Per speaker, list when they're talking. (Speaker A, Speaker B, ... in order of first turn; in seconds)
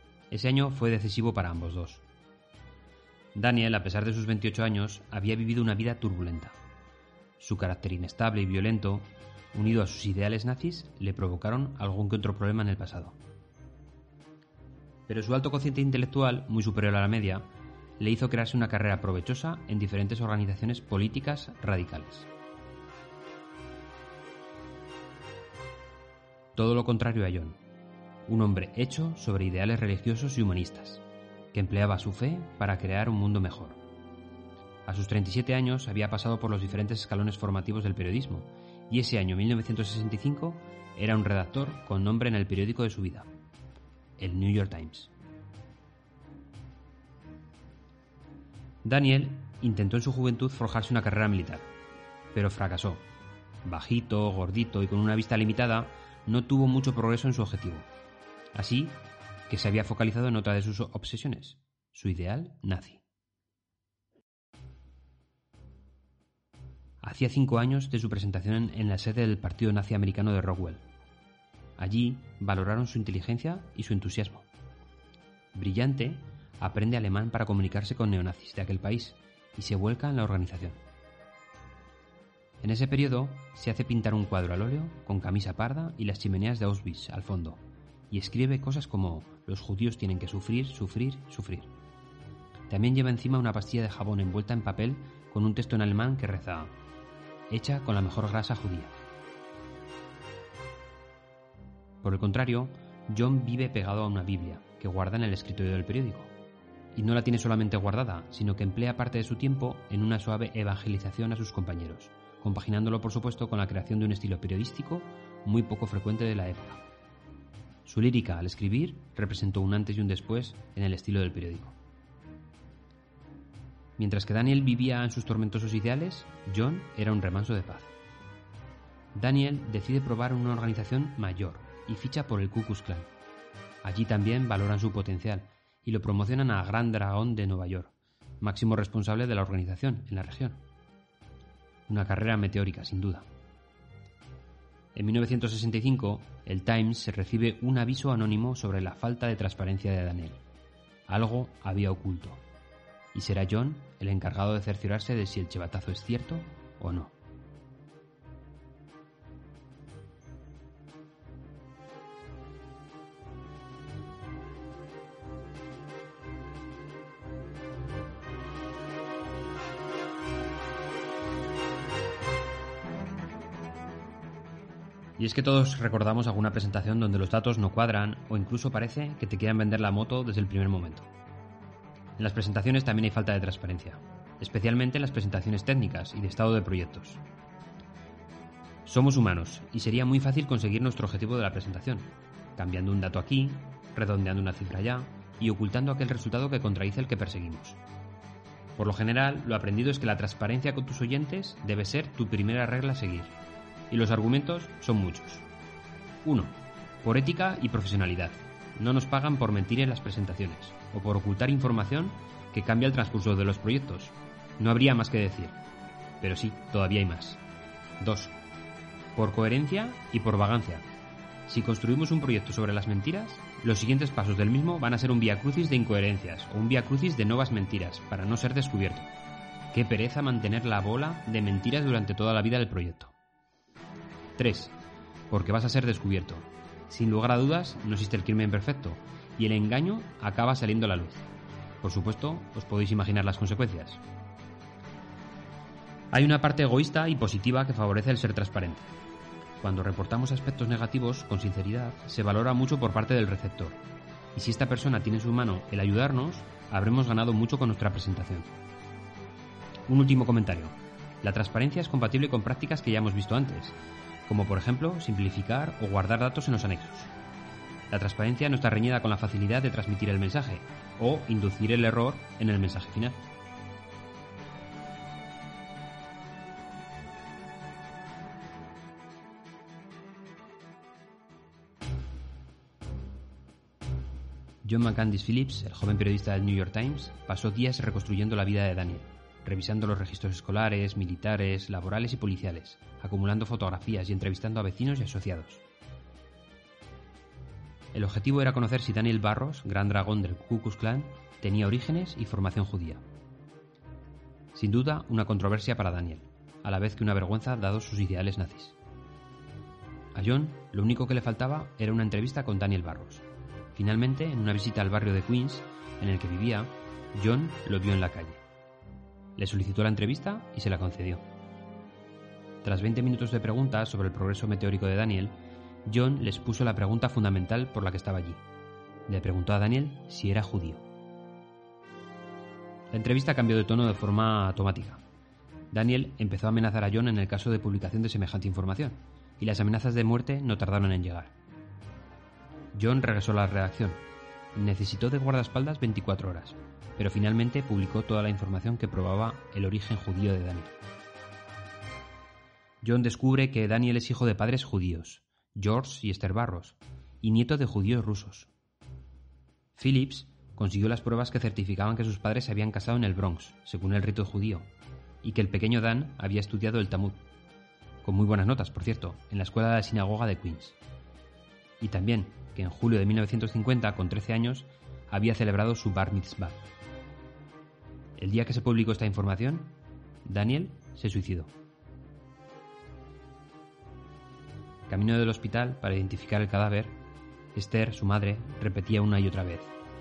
Speaker A: 0.3-2.0, 3.4-6.6, 7.4-13.2, 15.1-17.5, 18.0-22.3, 26.6-27.6, 28.3-33.8, 34.8-43.3, 44.2-45.1, 48.8-51.7, 52.3-53.0, 53.6-57.9, 58.5-63.0, 67.0-70.9, 71.8-74.5, 75.5-80.8, 82.6-91.7, 92.7-96.8, 97.5-98.9, 102.0-106.3, 106.9-116.8, 117.8-121.8, 124.0-127.9, 129.1-133.1, 133.8-140.6, 141.9-143.3, 144.9-150.4, 151.1-152.4, 153.1-157.1, 175.2-181.1, 182.2-187.2, 188.8-197.8, 198.8-203.4, 203.9-205.4, 206.2-215.6, 216.2-217.4, 218.0-218.3, 219.2-220.9, 221.5-229.1, 229.7-233.1, 234.4-234.8, 235.3-241.3, 241.8-244.0, 246.1-248.9, 249.6-253.8, 254.3-258.5, 259.9-267.1, 267.9-273.2, 284.6-295.6, 297.9-303.0, 304.5-308.8, 310.1-318.4, 319.4-321.2, 322.6-328.4, 329.1-330.8, 332.9-335.0, 335.7-341.3, 342.7-344.0, 344.5-350.8, 352.8-358.5, 359.8-364.7, 365.2-367.2, 368.0-370.8, 371.8-376.6, 378.2-381.5, 384.9-387.0, 387.5-389.8